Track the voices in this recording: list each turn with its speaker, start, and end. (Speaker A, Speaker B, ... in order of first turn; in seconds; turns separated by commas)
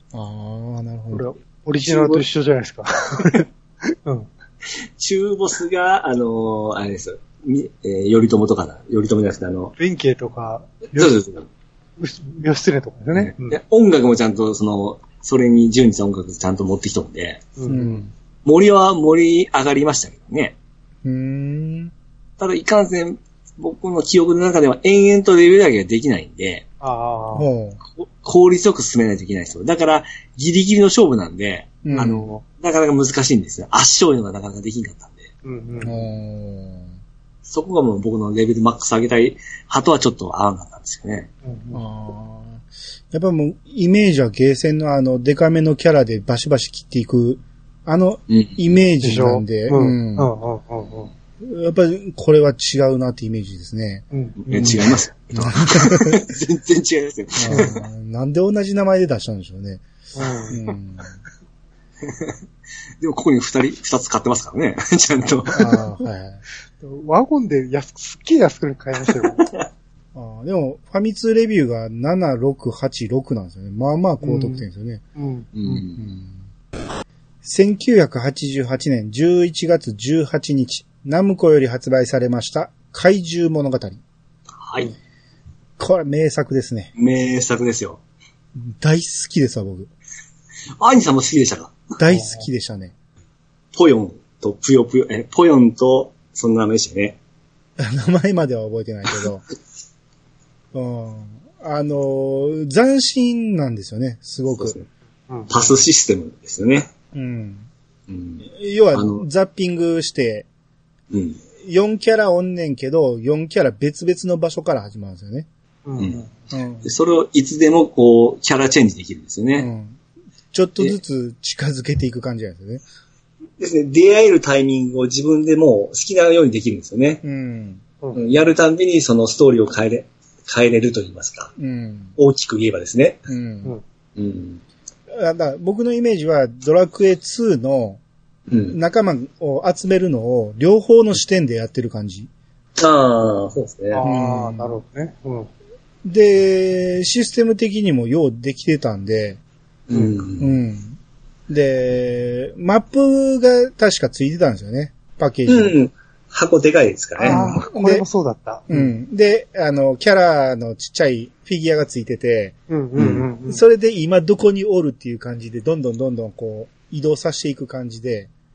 Speaker A: 0.1-1.3, Speaker B: 1.1-4.3, Speaker C: 1.8-2.2, Speaker C: 5.0-9.7, Speaker B: 9.8-11.2, Speaker C: 10.9-11.5, Speaker B: 12.0-13.6, Speaker C: 13.1-17.5, Speaker B: 17.6-18.0, Speaker A: 17.7-18.1, Speaker C: 18.4-20.6, Speaker A: 21.0-21.9, Speaker C: 22.4-26.6, Speaker B: 26.8-27.5, Speaker A: 27.3-27.8, Speaker C: 27.9-35.3, Speaker A: 31.8-32.2, Speaker B: 31.9-32.4, Speaker B: 35.4-35.9, Speaker A: 35.8-36.9, Speaker C: 37.5-41.3, Speaker B: 41.4-41.8, Speaker A: 41.7-50.3, Speaker C: 48.3-48.7, Speaker B: 49.0-51.1, Speaker A: 51.4-56.2, Speaker B: 54.1-54.9, Speaker C: 54.5-57.8, Speaker A: 57.4-59.8, Speaker B: 57.5-57.7, Speaker B: 60.1-60.6, Speaker A: 60.5-61.1, Speaker C: 62.0-62.4, Speaker C: 63.0-65.8, Speaker A: 65.5-66.4, Speaker B: 66.8-69.5, Speaker A: 70.1-75.0, Speaker B: 74.2-75.5, Speaker C: 75.5-76.0, Speaker A: 75.7-76.4, Speaker A: 77.4-84.0, Speaker C: 84.6-84.9, Speaker A: 85.8-86.9, Speaker C: 87.0-88.0, Speaker A: 88.6-89.9, Speaker C: 90.8-91.7, Speaker A: 92.0-92.9, Speaker B: 92.1-92.4, Speaker C: 93.7-97.2, Speaker A: 97.8-99.5, Speaker A: 100.7-104.8, Speaker C: 104.5-104.9, Speaker B: 105.3-105.6, Speaker C: 105.5-106.9, Speaker A: 107.1-107.7, Speaker C: 108.1-109.2, Speaker A: 108.5-110.5, Speaker C: 111.1-111.4, Speaker A: 111.6-115.5, Speaker B: 115.8-116.3, Speaker C: 116.0-116.2, Speaker A: 116.5-116.9, Speaker C: 116.8-119.7, Speaker A: 119.6-120.0, Speaker A: 120.5-122.8, Speaker C: 123.6-127.2, Speaker A: 127.2-127.8, Speaker C: 128.1-131.5, Speaker A: 131.6-132.2, Speaker C: 132.2-133.2, Speaker A: 133.3-133.8, Speaker C: 134.2-134.6, Speaker A: 135.1-138.0, Speaker C: 138.5-138.8, Speaker A: 138.7-142.3, Speaker C: 142.8-144.0, Speaker B: 143.9-145.5, Speaker A: 144.0-144.8, Speaker A: 146.0-149.4, Speaker C: 149.9-150.5, Speaker A: 150.4-155.7, Speaker C: 155.5-157.5, Speaker A: 157.2-158.1, Speaker B: 157.2-158.9, Speaker A: 158.7-162.6, Speaker B: 162.7-163.6, Speaker C: 163.0-163.3, Speaker A: 163.5-168.3